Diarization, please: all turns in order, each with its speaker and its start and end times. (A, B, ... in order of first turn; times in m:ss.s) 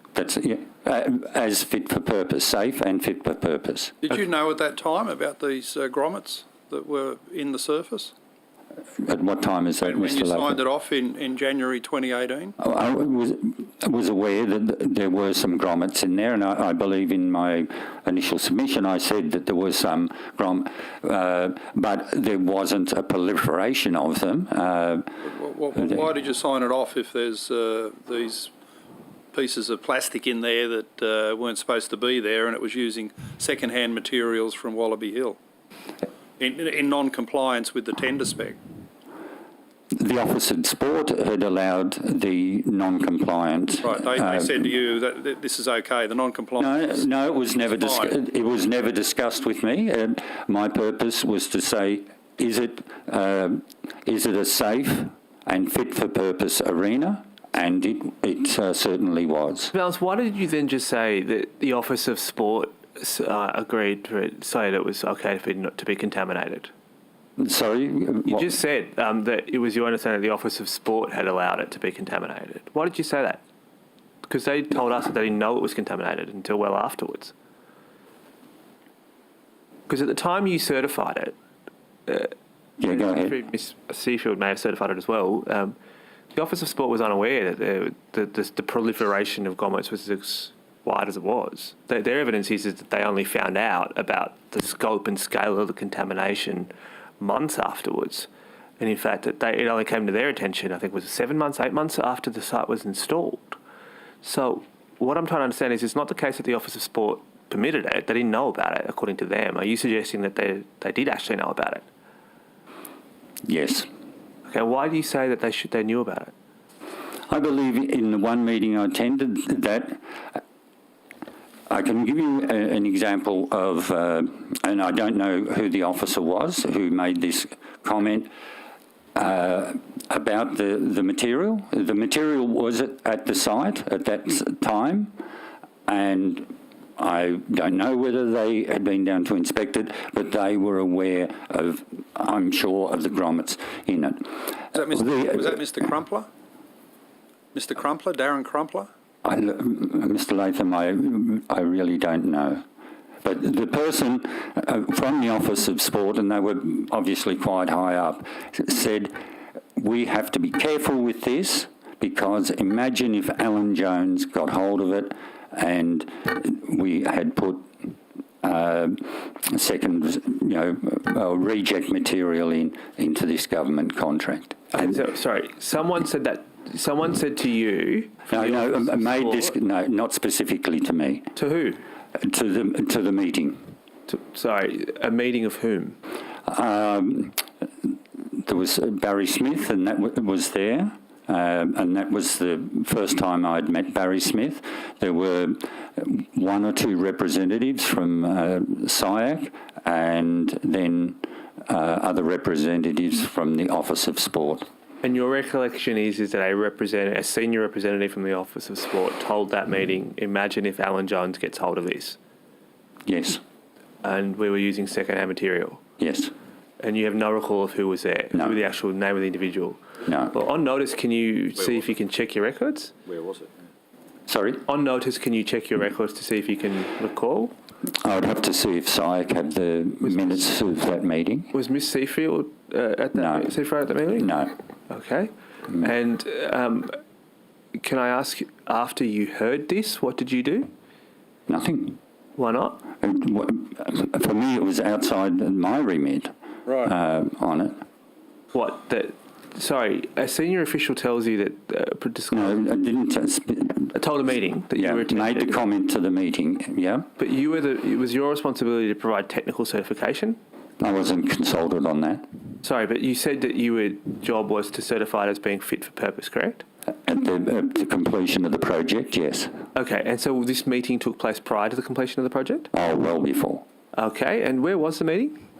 0:00.1-0:04.0 A
0:04.0-0:08.1 B
0:09.0-0:10.6 A
0:09.8-0:12.6 B
0:12.6-0:25.1 A
0:25.2-0:28.5 B
0:29.3-0:35.4 B
0:36.4-0:38.6 B
0:39.9-0:44.5 A
0:43.8-0:47.0 B
0:46.6-0:59.7 A
0:47.6-0:48.2 B
0:59.7-1:06.7 C
1:07.4-1:08.5 A
1:08.3-1:13.4 C
1:14.2-1:17.3 C
1:19.9-1:21.3 C
1:22.1-1:22.3 C
1:22.8-1:23.4 A
1:22.9-1:25.8 C
1:26.3-1:38.3 C
1:38.8-1:43.6 C
1:44.2-1:51.8 C
1:53.4-1:53.9 A
1:54.5-1:56.3 C
1:57.3-2:00.4 A
2:01.7-2:08.3 A
2:09.1-2:15.1 A
2:15.9-2:25.4 A
2:24.7-2:26.3 B
2:27.5-2:28.9 B
2:29.2-2:32.6 A
2:33.2-2:39.1 A
2:39.8-2:47.7 A
2:48.4-2:54.8 A
2:54.7-2:59.5 C
2:58.3-3:01.3 A
3:01.3-3:01.8 C
3:02.2-3:03.6 A
3:04.1-3:06.0 C
3:06.4-3:24.7 A
3:25.0-3:32.2 C
3:33.1-3:33.4 A
3:34.0-3:35.8 C
3:36.0-3:36.3 A
3:36.8-3:39.8 C
3:40.0-3:40.3 A
3:40.3-3:42.9 C
3:44.3-3:44.6 A
3:44.6-3:47.5 C
3:48.0-3:51.5 A
3:50.0-3:50.4 C
3:51.5-3:54.3 C
3:53.1-3:53.5 A
3:54.2-3:54.5 A
3:54.9-3:57.0 C
3:57.8-4:00.7 C
4:01.5-4:02.0 A
4:02.4-4:02.8 C
4:03.0-4:07.7 A
4:08.5-4:12.6 C
4:12.3-4:13.9 A
4:13.9-4:15.6 C
4:14.7-4:17.1 A
4:17.2-4:20.4 C
4:20.8-4:22.2 A
4:22.6-4:26.6 C
4:27.0-4:29.5 A
4:29.7-4:32.7 C
4:32.7-4:33.6 A
4:33.9-4:35.4 C